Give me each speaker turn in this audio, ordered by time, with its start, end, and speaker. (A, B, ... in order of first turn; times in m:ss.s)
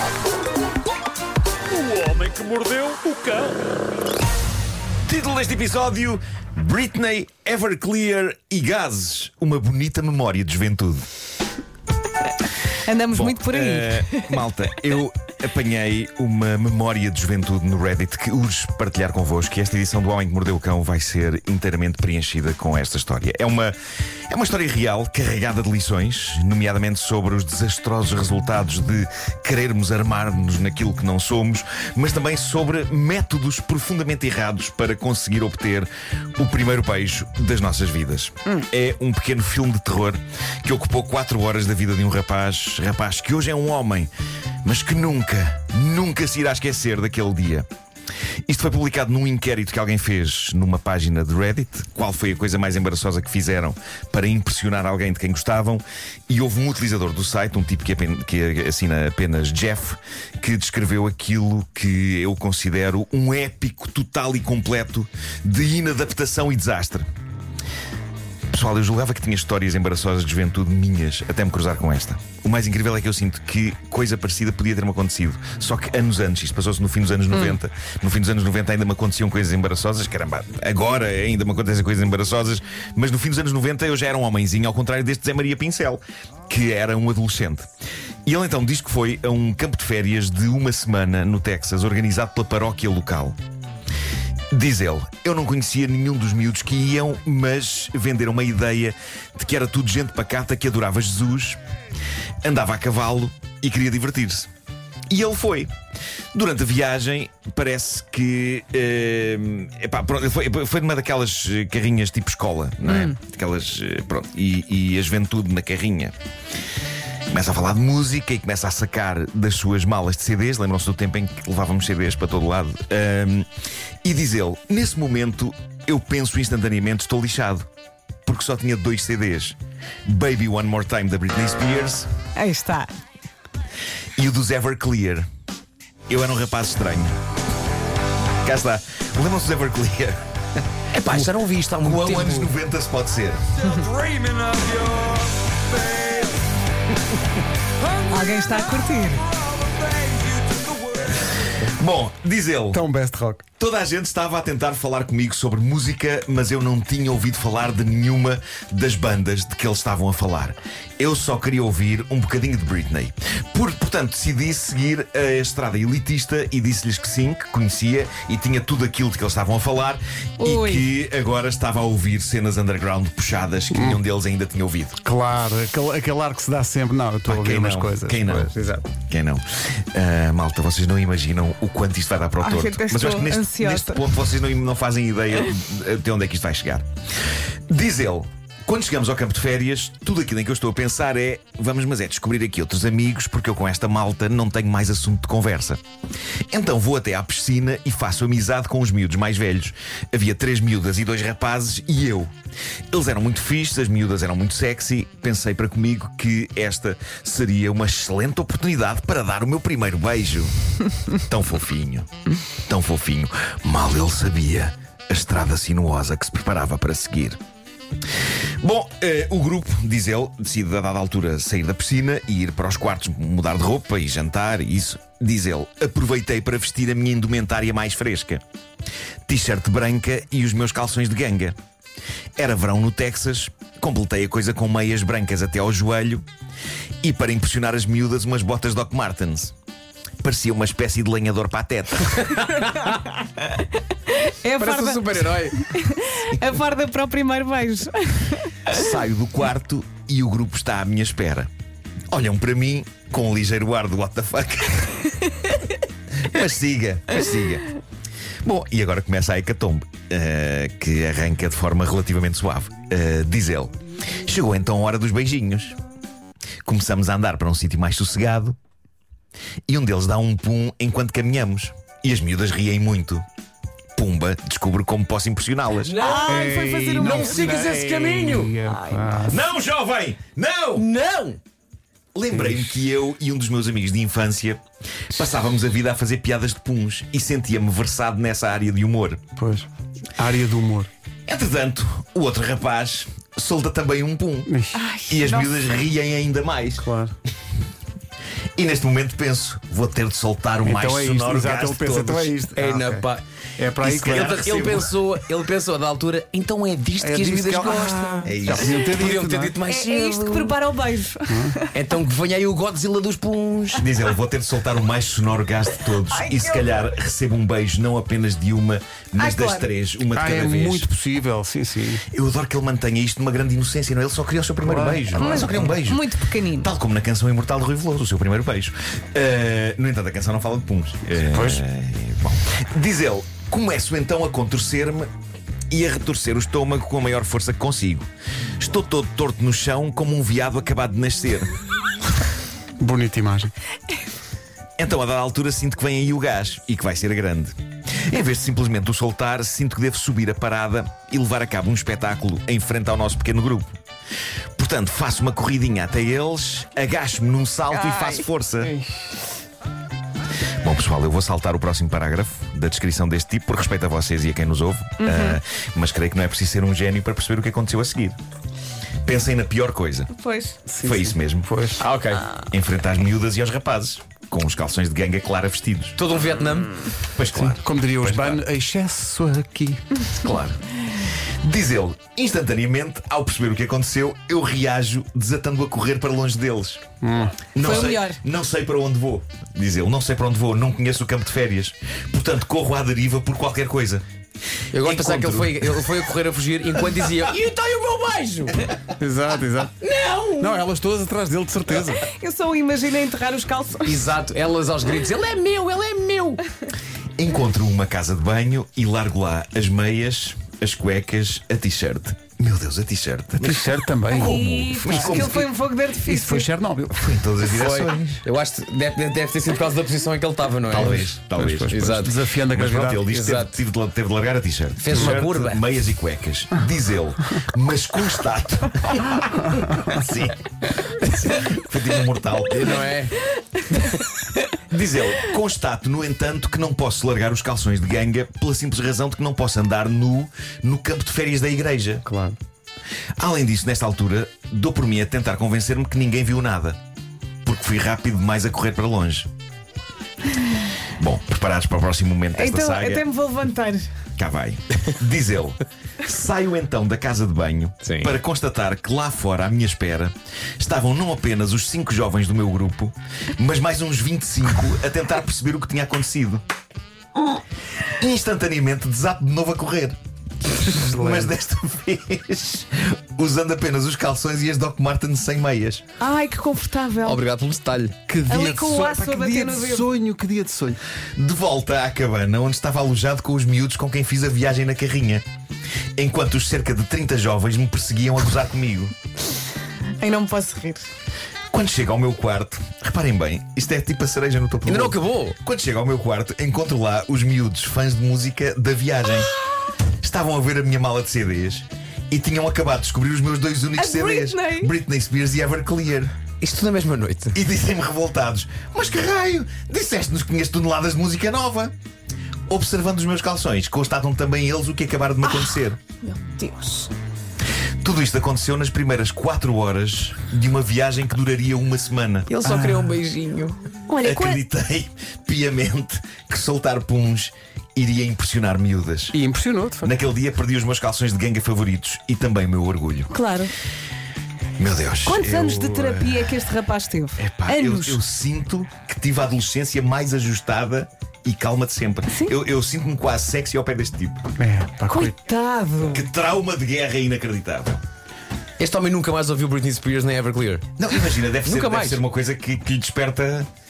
0:01.8-0:03.6 A
0:05.0-0:11.0 B
0:12.8-0:14.4 C
0:13.1-0:23.7 B
0:24.3-0:44.1 B
0:44.6-0:47.7 B
0:48.5-1:07.1 B
1:08.5-1:27.7 B
1:28.2-1:33.4 B
1:34.5-1:41.6 B
1:42.4-1:44.5 B
1:45.1-1:45.7 B
1:46.3-1:56.1 B
1:57.3-2:03.5 B
2:04.0-2:07.7 B
2:08.2-2:12.1 B
2:12.4-2:12.9 C
2:14.2-2:15.2 B
2:16.1-2:17.1 B
2:18.4-2:20.2 B
2:20.9-2:22.5 D
2:21.0-2:23.7 B
2:23.6-2:23.9 C
2:24.1-2:24.6 A
2:25.9-2:26.2 D
2:28.1-2:29.3 C
2:31.6-2:32.8 B
2:32.7-2:33.4 E
2:33.6-2:55.0 B
2:50.4-2:50.8 C
2:53.7-2:54.0 E
2:55.0-2:58.8 E
2:57.2-3:06.9 B
3:02.4-3:04.0 C
3:07.7-3:15.8 B
3:16.5-3:22.3 B
3:22.9-3:30.5 B
3:31.1-3:32.1 B
3:32.7-3:37.4 B
3:38.6-3:48.4 B
3:49.2-3:51.6 B
3:52.4-3:56.2 B
3:57.0-3:59.5 B
4:00.2-4:02.2 B
4:02.2-4:03.1 D
4:03.5-4:08.7 C
4:04.6-4:05.6 D
4:08.7-4:11.5 B
4:12.1-4:15.0 B
4:16.2-4:17.7 B
4:18.4-4:25.8 B
4:26.6-4:28.6 B
4:29.7-4:33.2 B
4:34.0-4:36.0 B
4:35.8-4:39.3 D
4:35.9-4:37.7 C
4:36.3-4:39.4 E
4:38.6-4:39.1 C
4:39.2-4:40.9 B
4:40.8-4:41.4 D
4:42.1-4:49.2 B
4:42.3-4:42.8 E
4:49.4-4:50.9 E
4:51.3-4:54.5 B
4:54.5-4:54.8 E
4:54.7-4:55.5 C
4:55.1-4:56.8 B
4:56.8-4:57.1 E
4:58.6-5:02.3 B
5:00.6-5:04.4 E
5:02.6-5:03.2 D
5:03.8-5:10.6 D
5:03.9-5:04.9 B
5:07.0-5:09.6 E
5:07.8-5:08.1 C
5:08.2-5:08.9 B
5:09.6-5:11.8 C
5:11.3-5:11.6 E
5:11.7-5:13.8 D
5:13.8-5:20.9 B
5:16.1-5:16.8 C
5:19.2-5:19.7 C
5:20.1-5:22.0 E
5:22.1-5:35.1 B
5:24.6-5:25.7 E
5:25.1-5:26.7 C
5:31.2-5:31.6 E
5:35.7-5:41.5 B
5:42.8-5:43.5 E
5:44.8-5:53.7 B
5:54.6-5:58.8 B
6:00.6-6:08.2 B
6:05.0-6:05.4 C
6:09.0-6:10.1 B
6:10.1-6:10.6 C
6:10.7-6:11.8 E
6:10.8-6:11.5 B
6:11.8-6:12.3 D
6:12.5-6:16.0 B
6:16.0-6:16.9 D
6:17.1-6:18.2 B
6:17.3-6:19.8 E
6:18.1-6:18.3 D
6:20.1-6:26.8 B
6:27.0-6:27.4 E
6:27.5-6:34.0 B
6:27.6-6:28.2 C
6:34.7-6:38.7 D
6:34.8-6:35.9 B
6:39.0-6:39.8 E
6:39.8-6:40.6 D
6:40.4-6:42.0 E
6:42.1-6:44.1 C
6:43.8-6:46.4 D
6:47.2-6:55.4 B
6:53.4-6:55.5 E
6:54.1-6:56.5 C
6:56.0-6:57.0 E
6:56.9-6:58.2 B
6:57.4-7:01.0 D
7:00.7-7:10.4 B
7:00.8-7:03.0 E
7:01.6-7:02.2 D
7:03.1-7:03.6 D
7:04.8-7:05.6 D
7:11.0-7:12.9 B
7:12.6-7:13.2 D
7:13.7-7:14.0 D
7:14.7-7:22.0 B
7:22.0-7:22.4 E
7:23.2-7:26.8 B
7:27.4-7:29.3 B
7:31.0-7:33.0 B
7:32.3-7:33.9 C
7:34.2-7:46.4 B
7:37.8-7:38.1 D
7:47.9-7:50.0 B
7:50.5-7:55.8 B
7:50.7-7:51.3 E
7:56.0-7:57.2 C
7:57.0-7:58.1 D
7:58.1-8:00.8 E
7:58.3-7:59.9 C
8:01.2-8:05.2 B
8:06.0-8:08.9 B
8:10.0-8:10.9 C
8:11.5-8:19.3 B
8:14.6-8:15.4 D
8:20.0-8:26.1 B
8:23.8-8:24.7 C
8:26.4-8:27.4 D
8:27.3-8:31.7 B
8:32.5-8:35.8 B
8:36.0-8:36.9 C
8:37.8-8:42.3 B
8:42.3-8:43.6 D
8:42.4-8:42.9 E
8:43.9-8:44.4 C
8:44.0-8:49.2 B
8:49.1-8:49.9 E
8:49.8-8:53.1 B
8:53.1-8:53.5 C
8:54.6-8:56.3 B
8:55.0-8:58.0 C
8:57.2-9:04.2 B
9:04.4-9:05.1 E
9:04.9-9:06.0 C
9:05.8-9:07.8 B
9:08.6-9:10.7 D
9:10.8-9:13.5 B
9:11.4-9:12.0 D